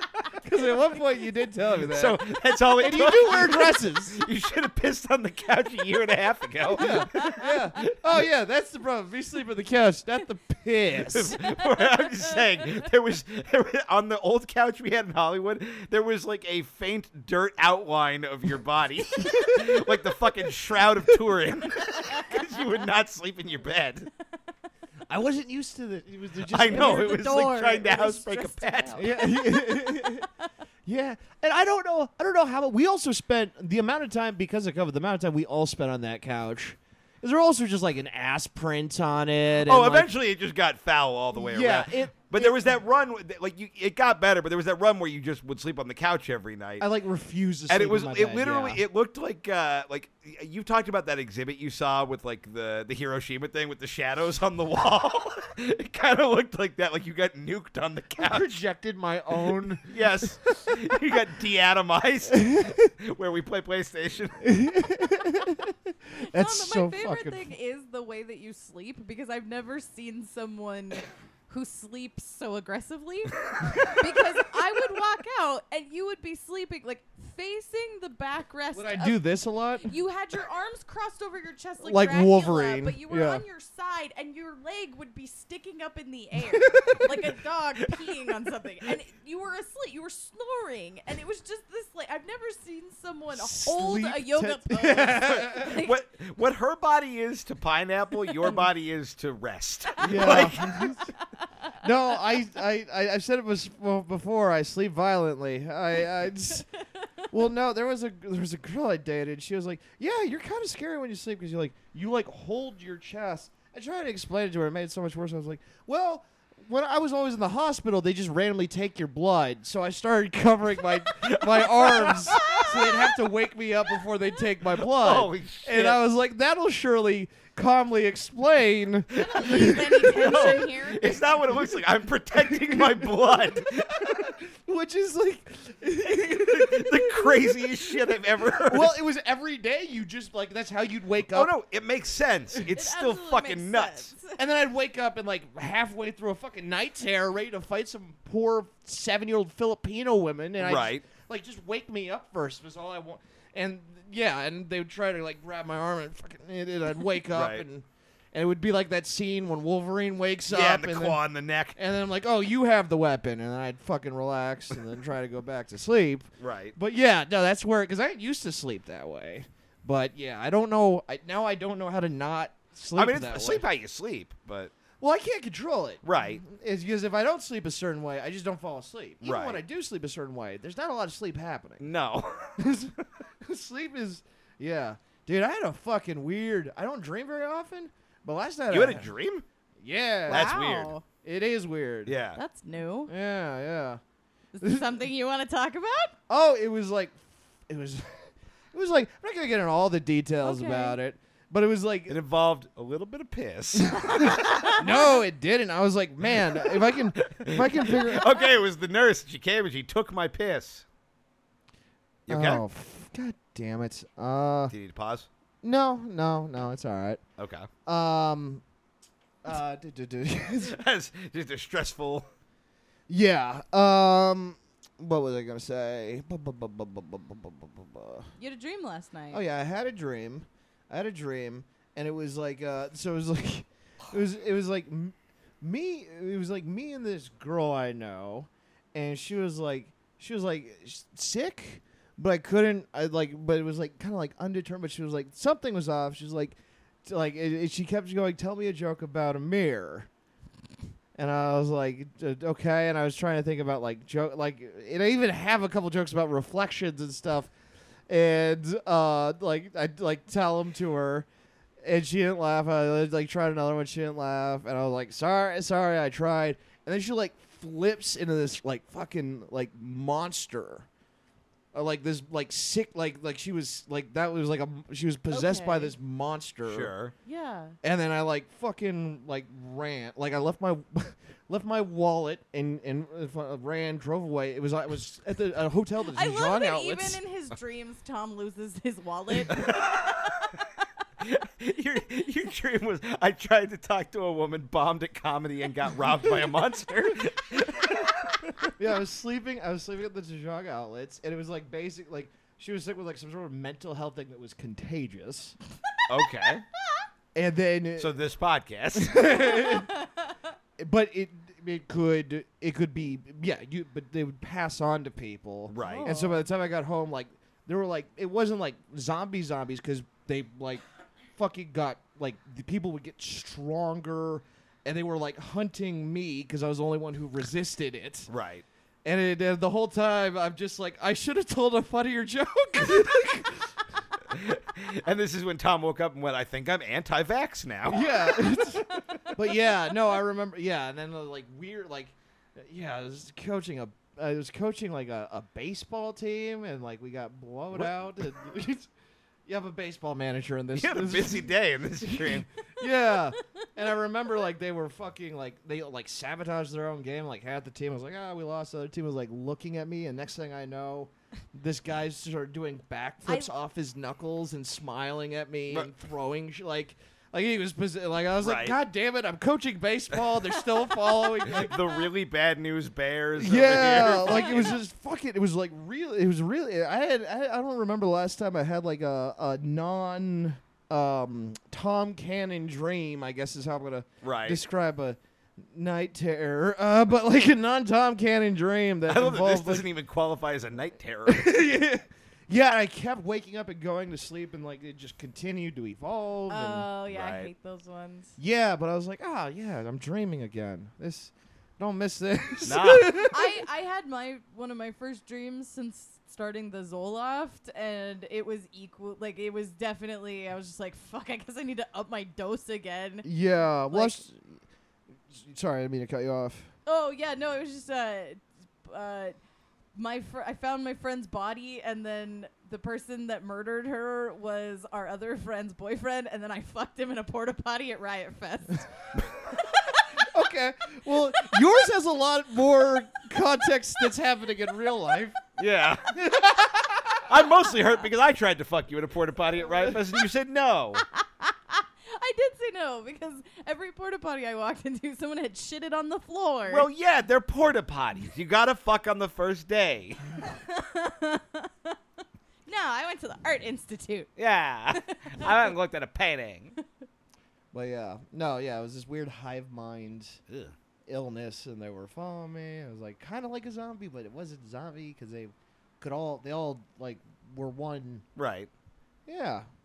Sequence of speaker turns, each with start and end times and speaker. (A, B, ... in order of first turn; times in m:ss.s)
0:00.3-0:04.2 A
0:01.9-0:07.9 B
0:06.7-0:11.4 A
0:07.2-0:07.5 C
0:10.9-0:24.1 B
0:11.5-0:12.4 C
0:19.2-0:19.6 A
0:25.1-0:27.2 A
0:26.5-0:29.0 B
0:26.7-0:30.0 C
0:29.0-0:30.3 A
0:30.8-0:40.1 A
0:39.6-0:46.9 B
0:41.3-0:42.7 A
0:46.8-0:48.8 A
0:47.7-0:58.6 B
0:58.2-0:59.9 A
0:59.8-1:04.4 B
1:02.3-1:02.7 A
1:04.4-1:07.5 A
1:06.2-1:19.2 C
1:13.6-1:14.0 A
1:18.7-1:19.9 A
1:19.8-1:36.0 C
1:21.8-1:23.4 A
1:26.5-1:27.1 A
1:27.8-1:28.4 B
1:33.3-1:35.7 A
1:35.5-1:40.9 B
1:40.0-1:41.1 A
1:40.2-1:40.5 C
1:41.8-1:46.7 A
1:47.3-2:10.6 A
2:01.2-2:03.1 B
2:04.8-2:06.0 B
2:09.2-2:11.3 C
2:09.3-2:14.4 B
2:12.5-2:17.3 A
2:16.1-2:18.9 B
2:18.6-2:21.5 A
2:21.3-2:24.1 B
2:22.6-2:24.4 C
2:24.4-2:41.2 A
2:30.6-2:31.0 B
2:37.3-2:37.6 B
2:40.5-2:41.8 B
2:41.7-2:53.6 A
2:46.4-2:46.8 B
2:53.0-2:54.7 B
2:55.0-3:01.9 A
2:56.0-2:56.4 B
2:59.2-2:59.6 B
3:01.8-3:03.0 B
3:02.6-3:09.1 A
3:08.7-3:09.4 B
3:09.8-3:10.5 A
3:10.3-3:11.0 C
3:10.3-3:10.9 B
3:11.2-3:12.2 A
3:12.0-3:12.4 B
3:12.3-3:13.1 C
3:13.1-3:14.0 A
3:14.5-3:16.1 C
3:16.3-3:22.2 A
3:20.4-3:21.0 C
3:22.1-3:24.8 B
3:23.7-3:28.3 A
3:24.4-3:25.2 C
3:26.2-3:30.8 B
3:28.0-3:28.4 C
3:32.3-3:32.6 B
3:32.3-3:34.7 A
3:34.7-3:35.3 B
3:35.6-3:37.2 A
3:37.4-3:37.7 B
3:37.8-3:38.6 A
3:39.4-3:40.8 A
3:40.6-3:42.3 B
3:43.1-3:48.3 A
3:48.4-3:49.4 C
3:49.3-4:10.1 A
4:11.2-4:17.5 A
4:18.1-4:21.3 A
4:21.8-4:30.9 A
4:31.7-4:36.9 A
4:35.3-4:35.9 C
4:36.7-4:37.1 B
4:37.2-4:37.8 C
4:37.8-4:47.2 A
4:46.1-4:50.1 C
4:49.5-4:50.5 B
4:51.2-4:58.7 B
4:58.8-5:05.6 A
5:06.1-5:06.6 B
5:07.3-5:08.2 A
5:08.0-5:09.5 B
5:08.9-5:09.9 A
5:09.5-5:10.1 C
5:10.8-5:20.8 A
5:15.7-5:16.1 B
5:15.8-5:16.4 C
5:21.4-5:28.3 A
5:28.3-5:28.6 B
5:29.0-5:33.7 A
5:34.3-5:38.7 B
5:37.8-5:48.9 A
5:49.5-6:11.8 A
5:50.7-5:52.5 B
6:08.4-6:08.8 B
6:11.4-6:14.8 B
6:13.4-6:29.8 A
6:13.7-6:14.8 C
6:24.2-6:24.6 B
6:29.1-6:31.6 B
6:31.2-6:36.9 A
6:36.5-6:38.3 C
6:37.0-6:37.5 B
6:38.4-6:43.6 A
6:42.6-6:43.3 B
6:43.1-6:53.3 C
6:53.2-6:54.6 A
6:53.9-6:54.2 C
6:55.3-6:56.7 A
6:56.8-6:59.4 C
6:59.9-7:10.1 C
7:10.2-7:15.4 A
7:15.6-7:16.1 B
7:16.1-7:17.2 A
7:17.3-7:21.0 B
7:21.1-7:26.9 C
7:26.7-7:30.2 B
7:30.4-7:31.9 C
7:32.6-7:34.3 C
7:34.4-7:36.7 B
7:34.9-7:35.7 C
7:37.7-7:40.4 A
7:40.5-7:40.7 B
7:41.1-7:48.2 A
7:48.4-7:48.7 B
7:49.3-7:49.7 A